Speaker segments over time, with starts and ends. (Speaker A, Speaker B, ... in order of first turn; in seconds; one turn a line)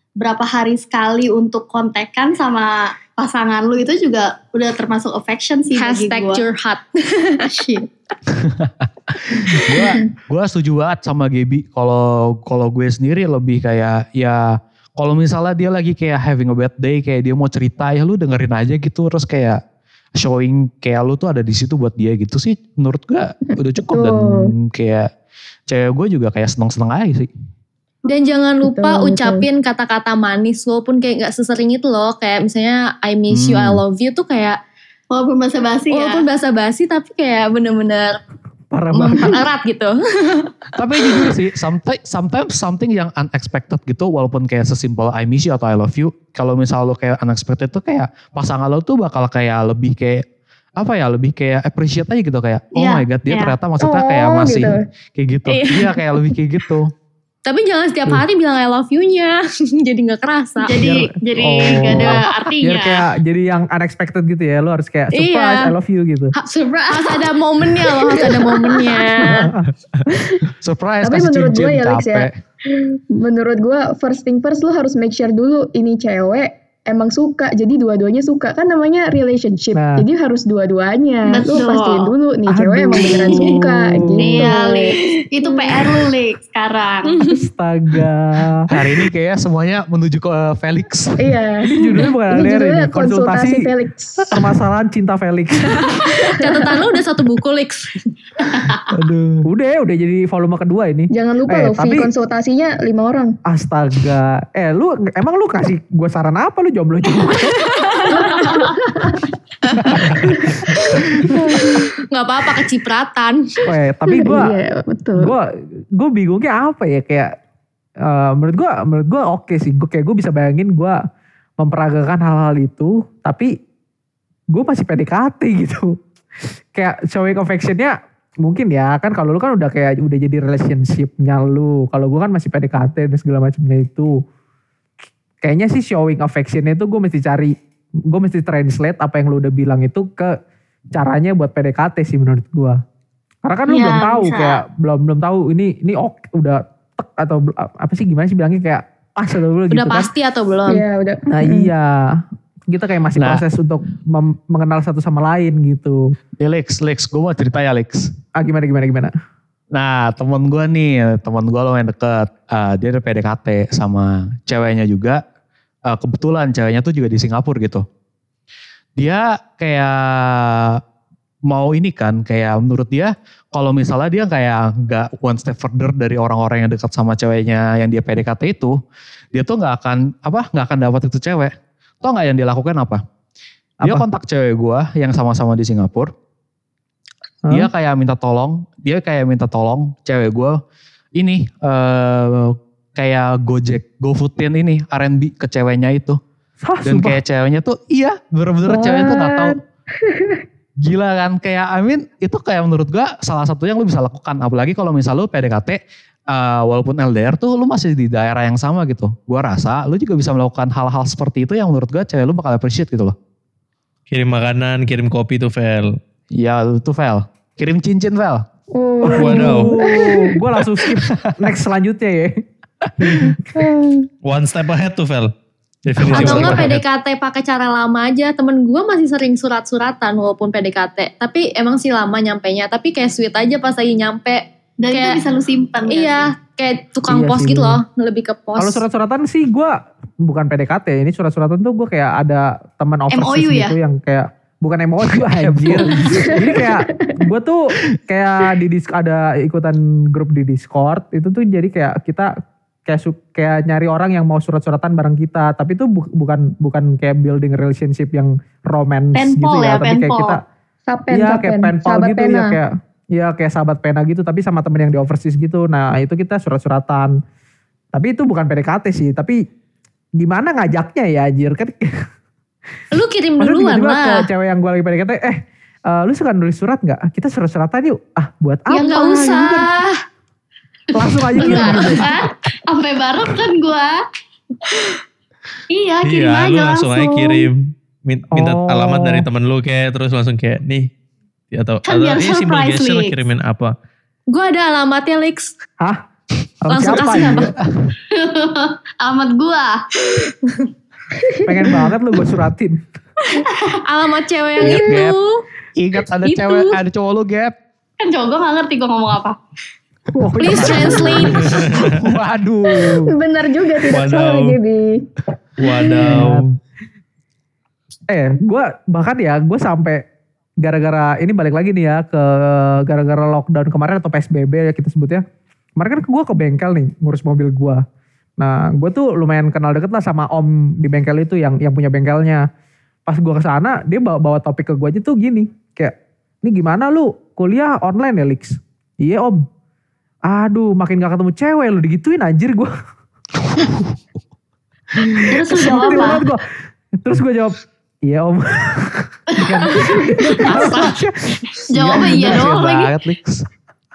Speaker A: 0.2-6.4
Speaker B: 5.8-7.5
Speaker A: 7.5-7.9
Speaker C: 8.3-19.6
Speaker C: 20.2-25.1
Speaker D: 23.9-24.5
Speaker C: 25.7-27.3
Speaker B: 28.1-34.6
Speaker D: 28.6-29.4
Speaker C: 33.3-33.8
Speaker A: 35.1-36.2
Speaker B: 35.9-38.2
Speaker E: 38.7-39.4
Speaker B: 38.9-41.3
Speaker C: 40.8-50.2
Speaker C: 50.8-56.9
Speaker A: 52.7-53.5
Speaker D: 53.8-54.8
Speaker B: 55.5-56.2
Speaker B: 57.4-60.8
Speaker A: 60.6-63.0
Speaker E: 60.8-66.3
Speaker B: 62.3-62.5
Speaker B: 65.1-65.7
Speaker B: 66.4-69.5
Speaker A: 66.9-67.2
Speaker E: 69.2-69.7
Speaker D: 70.1-70.4
Speaker C: 70.5-72.4
Speaker D: 71.0-84.7
Speaker E: 79.7-80.1
Speaker A: 81.2-82.1
Speaker E: 82.5-84.6
Speaker A: 83.0-83.6
Speaker A: 84.2-87.2
Speaker B: 87.1-87.4
Speaker E: 87.3-88.6
Speaker C: 88.7-91.3
Speaker D: 91.2-94.4
Speaker E: 91.6-93.6
Speaker E: 94.3-95.9
Speaker B: 96.0-98.1
Speaker A: 98.5-98.8
Speaker C: 98.9-99.5
Speaker E: 99.5-102.1
Speaker D: 101.1-103.3
Speaker E: 103.5-107.6
Speaker B: 107.6-108.7
Speaker D: 108.6-109.2
Speaker E: 109.8-110.6
Speaker D: 111.3-111.8
Speaker B: 111.6-113.7
Speaker E: 113.7-114.5
Speaker D: 114.1-115.3
Speaker E: 115.2-115.4
Speaker E: 116.0-117.3
Speaker E: 118.1-121.0
Speaker E: 121.6-123.5
Speaker E: 124.5-126.0
Speaker E: 126.7-134.2
Speaker E: 135.4-137.5
Speaker E: 138.1-140.3
Speaker E: 140.9-142.8
Speaker E: 143.4-150.1
Speaker A: 143.7-144.6
Speaker B: 149.7-150.8
Speaker D: 150.7-151.7
Speaker E: 151.3-151.9
Speaker E: 152.7-156.0
Speaker C: 153.2-153.4
Speaker C: 156.4-158.1
Speaker E: 158.3-159.1
Speaker C: 159.7-165.2
Speaker C: 165.9-167.8
Speaker C: 169.0-170.8
Speaker C: 171.5-178.8
Speaker C: 179.3-183.0
Speaker C: 183.8-186.1
Speaker C: 187.5-190.6
Speaker C: 191.1-196.2
Speaker E: 196.6-197.2
Speaker C: 196.8-199.6
Speaker D: 198.7-200.4
Speaker C: 200.8-205.8
Speaker C: 206.3-213.2
Speaker F: 214.1-216.0
Speaker C: 216.3-218.4
Speaker D: 218.8-220.2
Speaker E: 219.0-222.4
Speaker F: 219.2-219.7
Speaker E: 223.0-223.4
Speaker C: 223.0-223.3
Speaker D: 223.5-224.1
Speaker F: 224.2-225.3
Speaker F: 225.8-226.8
Speaker C: 225.9-226.7
Speaker B: 226.1-235.2
Speaker A: 234.8-236.3
Speaker B: 235.9-238.8
Speaker E: 237.1-237.8
Speaker E: 238.6-252.3
Speaker A: 243.1-243.8
Speaker C: 245.1-246.5
Speaker D: 246.1-247.1
Speaker E: 252.9-260.4
Speaker A: 259.1-260.4
Speaker D: 260.9-262.6
Speaker E: 261.1-267.1
Speaker E: 267.9-269.4
Speaker E: 270.2-272.0
Speaker B: 272.9-274.3
Speaker E: 273.4-279.7
Speaker B: 278.7-280.0
Speaker E: 280.9-282.0
Speaker B: 281.3-282.3
Speaker A: 281.4-284.0
Speaker A: 284.6-285.0
Speaker A: 285.7-287.5
Speaker F: 286.0-290.9
Speaker E: 288.3-289.2
Speaker F: 291.5-293.7
Speaker A: 291.8-293.2
Speaker B: 294.3-295.5
Speaker E: 296.6-297.4
Speaker B: 296.7-297.5
Speaker C: 296.9-297.9
Speaker A: 298.1-300.5
Speaker E: 301.4-302.8
Speaker B: 303.3-305.4
Speaker A: 303.5-303.8
Speaker C: 304.6-305.2
Speaker C: 305.8-307.5
Speaker B: 306.2-306.8
Speaker A: 308.0-309.4
Speaker E: 310.1-311.7
Speaker B: 310.4-311.5
Speaker C: 310.6-313.1
Speaker F: 311.5-311.8
Speaker D: 312.7-315.1
Speaker F: 313.9-314.6
Speaker F: 315.6-316.5
Speaker E: 316.1-316.4
Speaker E: 318.1-320.0
Speaker E: 320.6-325.2
Speaker E: 325.8-327.8
Speaker E: 328.4-332.4
Speaker E: 333.1-339.4
Speaker E: 340.3-342.7
Speaker C: 343.6-343.9
Speaker C: 345.0-345.3
Speaker E: 345.0-346.4
Speaker A: 345.3-346.3
Speaker E: 347.0-351.4
Speaker A: 349.4-350.9
Speaker A: 351.7-352.9
Speaker C: 351.7-353.5